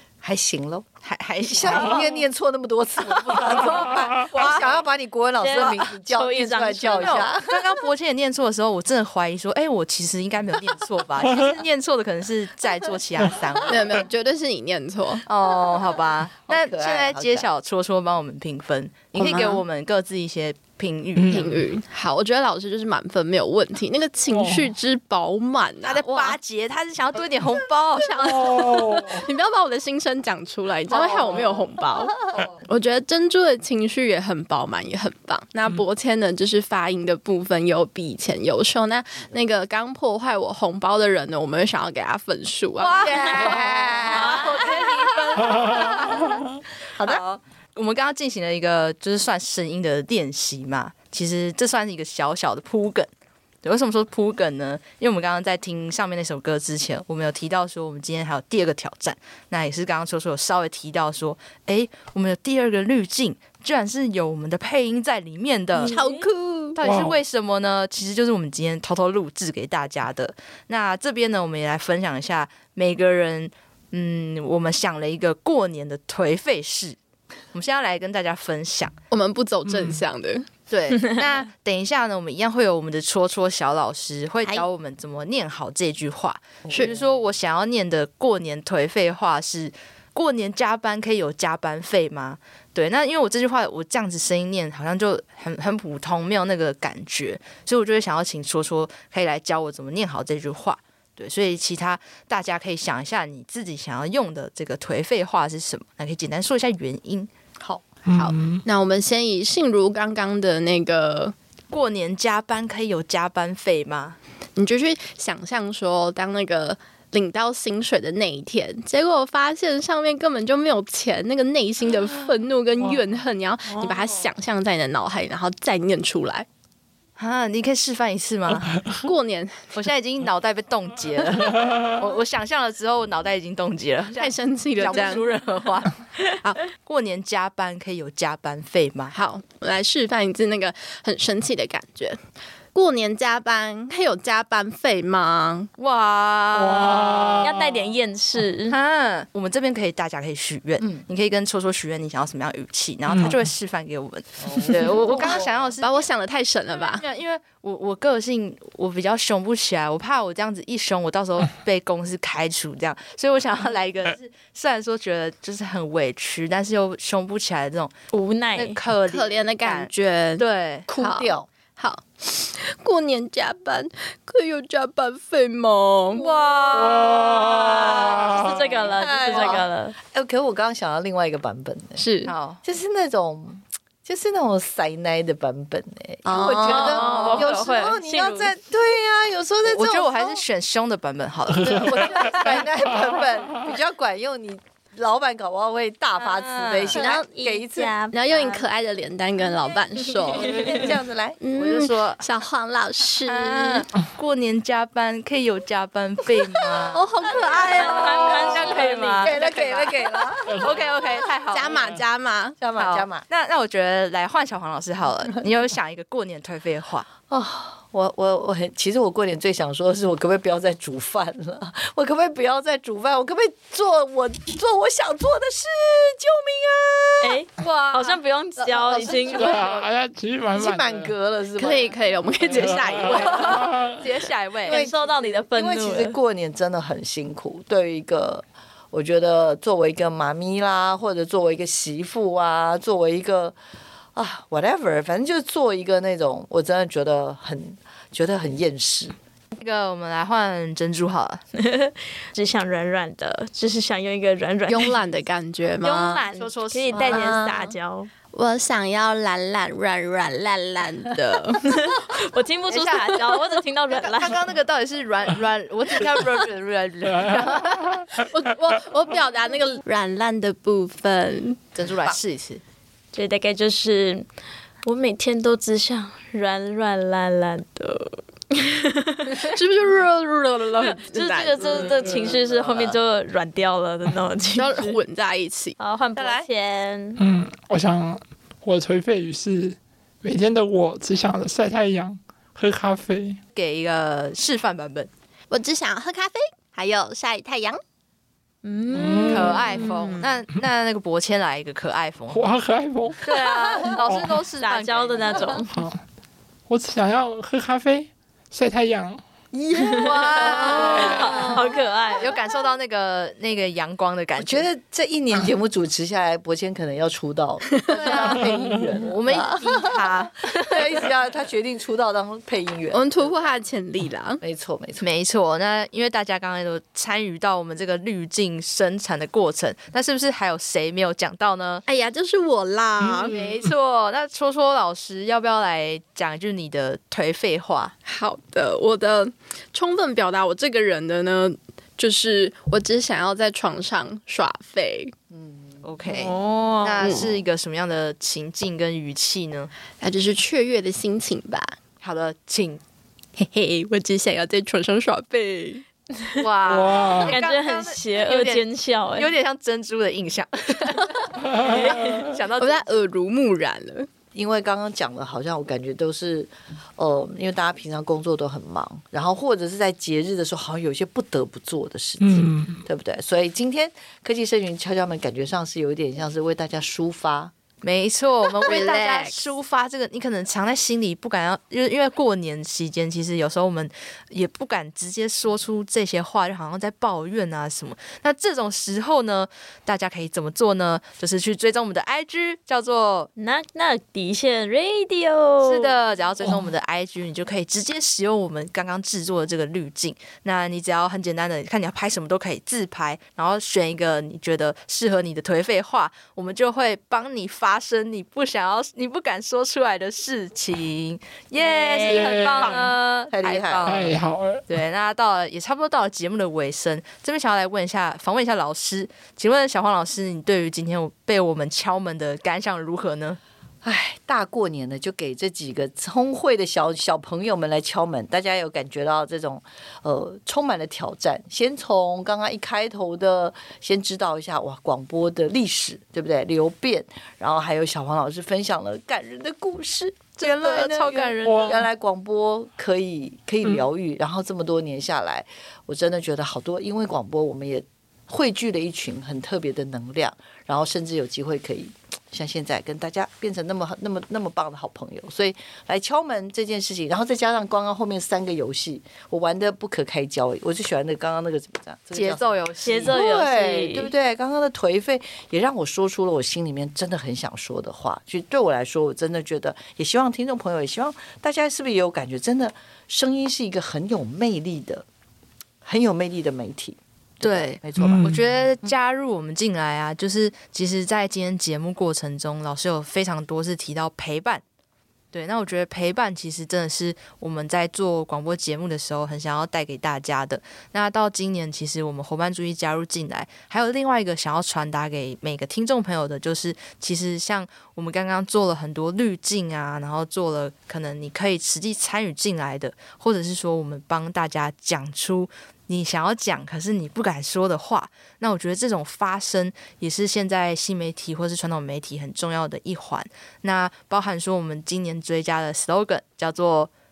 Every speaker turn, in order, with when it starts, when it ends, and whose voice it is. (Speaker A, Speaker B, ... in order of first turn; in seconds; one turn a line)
Speaker A: 0.2-0.9
Speaker B: 1.0-2.1
Speaker A: 1.5-7.7
Speaker B: 3.3-3.7
Speaker B: 4.3-4.7
Speaker C: 5.4-7.3
Speaker B: 6.9-13.9
Speaker D: 13.7-15.2
Speaker B: 15.3-21.5
Speaker A: 16.5-17.5
Speaker D: 19.1-19.6
Speaker E: 21.1-21.6
Speaker D: 21.3-26.4
Speaker E: 24.3-24.7
Speaker B: 25.8-28.8
Speaker E: 28.1-29.2
Speaker D: 28.2-32.1
Speaker B: 30.9-31.2
Speaker D: 32.7-43.5
Speaker B: 42.8-46.4
Speaker A: 43.0-46.3
Speaker C: 44.0-45.2
Speaker A: 46.9-47.2
Speaker B: 47.0-53.1
Speaker B: 53.6-66.0
Speaker D: 65.8-66.8
Speaker C: 65.8-66.2
Speaker B: 66.8-77.0
Speaker E: 66.8-67.2
Speaker B: 77.5-79.0
Speaker D: 79.1-80.5
Speaker E: 79.7-80.0
Speaker B: 80.7-107.3
Speaker C: 80.9-81.2
Speaker A: 86.7-87.1
Speaker A: 107.6-107.8
Speaker E: 108.1-108.6
Speaker D: 108.1-111.3
Speaker B: 111.7-114.2
Speaker D: 114.6-126.5
Speaker B: 127.2-128.8
Speaker D: 129.0-129.7
Speaker B: 129.7-139.2
Speaker D: 134.1-135.3
Speaker D: 139.1-142.2
Speaker D: 142.7-145.7
Speaker B: 145.8-147.9
Speaker E: 146.5-147.5
Speaker C: 147.4-148.8
Speaker B: 148.7-156.1
Speaker E: 153.1-153.4
Speaker A: 154.4-155.7
Speaker D: 155.8-157.0
Speaker B: 156.7-167.9
Speaker C: 168.1-168.8
Speaker B: 168.6-170.9
Speaker D: 169.1-170.4
Speaker A: 170.9-171.5
Speaker D: 171.0-176.3
Speaker B: 176.2-178.3
Speaker A: 176.2-182.0
Speaker C: 177.8-180.0
Speaker D: 182.0-182.3
Speaker B: 182.2-182.6
Speaker A: 182.6-190.4
Speaker D: 186.2-187.2
Speaker C: 186.6-188.5
Speaker B: 186.8-187.5
Speaker B: 189.7-192.7
Speaker A: 191.6-197.9
Speaker B: 196.2-197.0
Speaker C: 196.9-198.6
Speaker D: 198.1-200.8
Speaker A: 200.3-201.4
Speaker C: 200.5-200.8
Speaker D: 201.4-203.9
Speaker B: 201.6-202.2
Speaker B: 203.3-210.0
Speaker D: 206.9-208.4
Speaker C: 207.7-210.2
Speaker A: 207.9-208.4
Speaker A: 209.2-210.8
Speaker B: 210.5-212.0
Speaker D: 211.5-212.6
Speaker A: 212.6-213.2
Speaker B: 212.8-217.1
Speaker A: 217.3-227.4
Speaker C: 227.2-229.7
Speaker D: 228.6-229.8
Speaker A: 228.9-229.7
Speaker E: 229.3-231.1
Speaker A: 230.5-231.9
Speaker D: 231.6-233.7
Speaker E: 232.5-234.0
Speaker A: 233.1-233.7
Speaker B: 233.1-234.8
Speaker C: 234.6-236.2
Speaker A: 234.7-243.6
Speaker A: 244.2-249.2
Speaker B: 249.6-251.4
Speaker C: 251.6-255.0
Speaker D: 254.7-256.2
Speaker C: 255.8-258.1
Speaker B: 256.0-257.3
Speaker D: 256.9-257.6
Speaker A: 257.1-257.4
Speaker D: 258.3-261.8
Speaker C: 261.6-264.4
Speaker B: 262.7-263.2
Speaker B: 263.9-268.1
Speaker A: 267.1-267.4
Speaker D: 268.1-271.6
Speaker B: 271.8-272.6
Speaker C: 273.1-274.3
Speaker C: 274.8-279.4
Speaker D: 279.4-282.0
Speaker C: 280.9-285.0
Speaker A: 282.3-282.9
Speaker D: 284.6-285.8
Speaker C: 285.8-287.2
Speaker A: 286.2-286.4
Speaker E: 287.2-293.4
Speaker B: 293.6-295.1
Speaker D: 295.5-297.8
Speaker C: 298.6-300.3
Speaker E: 298.9-299.9
Speaker B: 299.3-302.4
Speaker E: 302.3-303.2
Speaker B: 303.2-305.6
Speaker C: 303.3-304.0
Speaker E: 304.0-304.4
Speaker C: 304.6-305.7
Speaker E: 305.7-306.0
Speaker E: 306.7-309.2
Speaker A: 309.5-312.2
Speaker C: 309.7-312.4
Speaker B: 309.9-311.6
Speaker B: 312.2-314.7
Speaker A: 314.4-323.3
Speaker D: 317.8-318.2
Speaker B: 318.1-318.4
Speaker B: 319.0-321.1
Speaker D: 322.9-324.4
Speaker A: 324.4-325.1
Speaker B: 325.0-331.8
Speaker D: 331.9-333.4
Speaker B: 333.1-337.9
Speaker D: 338.1-345.1
Speaker A: 345.3-345.9
Speaker B: 345.8-349.7
Speaker C: 346.1-347.2
Speaker D: 347.0-347.4
Speaker D: 350.0-351.8
Speaker B: 352.0-352.8
Speaker D: 353.4-355.8
Speaker B: 356.4-358.6
Speaker E: 356.7-357.4
Speaker C: 357.3-359.3
Speaker B: 359.2-362.8
Speaker E: 361.6-362.1
Speaker C: 361.6-362.2
Speaker D: 362.6-364.1
Speaker A: 364.3-377.5
Speaker E: 372.2-372.8
Speaker B: 377.8-393.3
Speaker D: 378.7-379.4
Speaker C: 393.4-395.9
Speaker B: 395.6-414.2
Speaker C: 411.6-412.8
Speaker E: 412.0-412.9
Speaker A: 413.3-414.0
Speaker E: 413.9-414.6
Speaker B: 414.7-423.4
Speaker A: 423.8-475.1
Speaker B: 440.4-441.8
Speaker E: 441.4-441.8
Speaker B: 462.1-463.1
Speaker C: 462.8-464.1
Speaker A: 475.8-478.9
Speaker B: 477.4-484.6
Speaker E: 478.0-478.4
Speaker B: 485.3-516.9